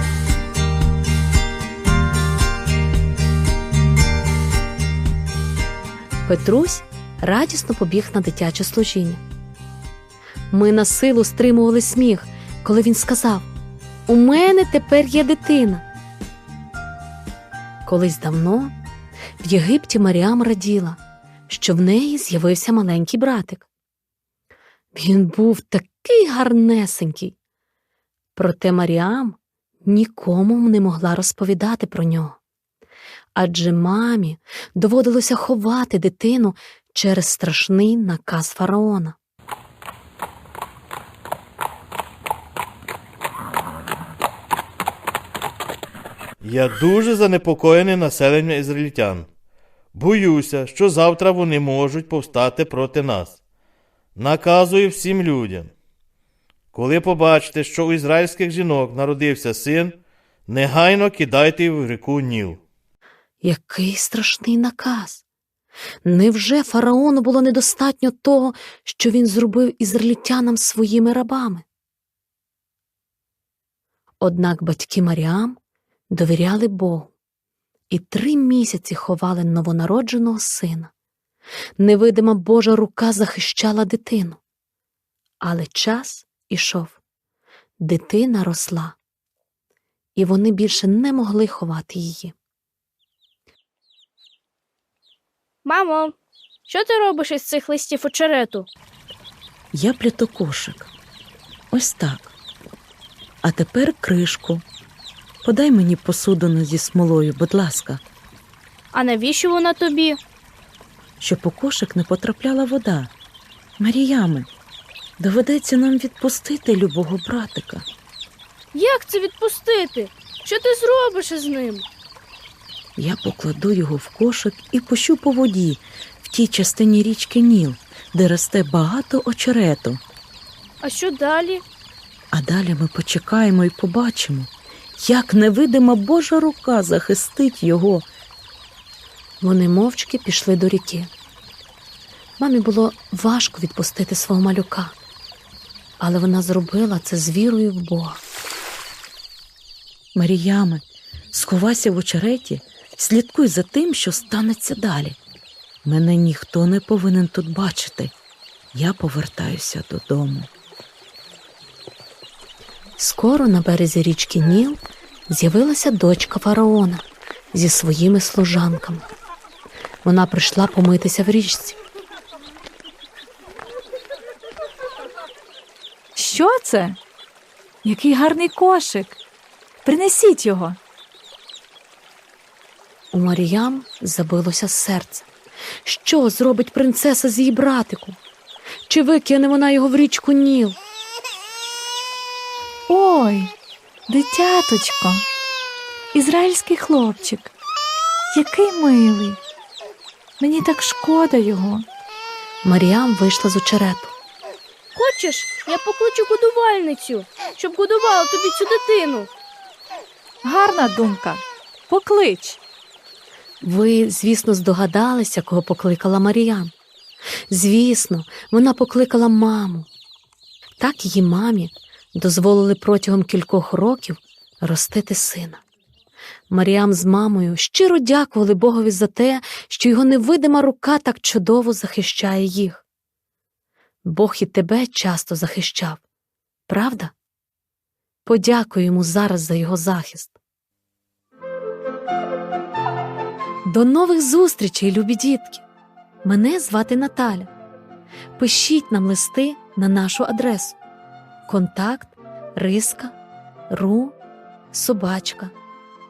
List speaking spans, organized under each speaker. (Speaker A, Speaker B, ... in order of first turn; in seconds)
Speaker A: 6.2-9.2, 10.5-13.5, 14.1-15.8, 17.8-18.7, 19.4-23.7, 24.9-27.4, 28.3-32.4, 33.3-39.2, 63.4-65.2, 66.0-71.6, 74.2-75.6, 76.1-77.1, 77.9-80.9, 81.8-84.4, 85.4-87.0, 87.8-89.0, 90.2-92.3, 139.4-141.1, 142.4-144.9, 146.0-148.2, 163.0-169.1, 170.0-171.8, 183.1-185.3, 185.8-188.2, 188.9-190.8, 202.6-204.1, 213.6-216.7, 217.5-219.9, 220.8-225.6, 226.5-232.8, 234.0-236.0, 236.7-237.1, 238.2-240.3, 243.7-245.6, 246.2-247.5, 248.3-250.8, 251.5-253.2, 253.7-254.2, 254.7-255.5
Speaker B: 46.4-49.3, 49.9-53.4, 54.1-55.7, 56.7-62.6
Speaker C: 95.6-96.1, 96.7-98.7, 108.9-110.2, 118.7-121.8, 130.8-131.6, 204.9-209.3
Speaker D: 99.7-100.9, 101.7-102.3, 103.4-104.6, 105.4-108.0, 111.2-113.1, 113.8-114.5, 115.2-117.8, 123.0-130.0, 132.3-138.1, 150.1-155.2, 155.8-158.1, 158.7-160.5
Speaker E: 176.1-177.0, 177.8-179.2, 179.8-180.8, 192.9-193.5, 194.1-195.2, 196.1-197.5, 198.3-199.4, 200.4-201.8, 210.4-212.6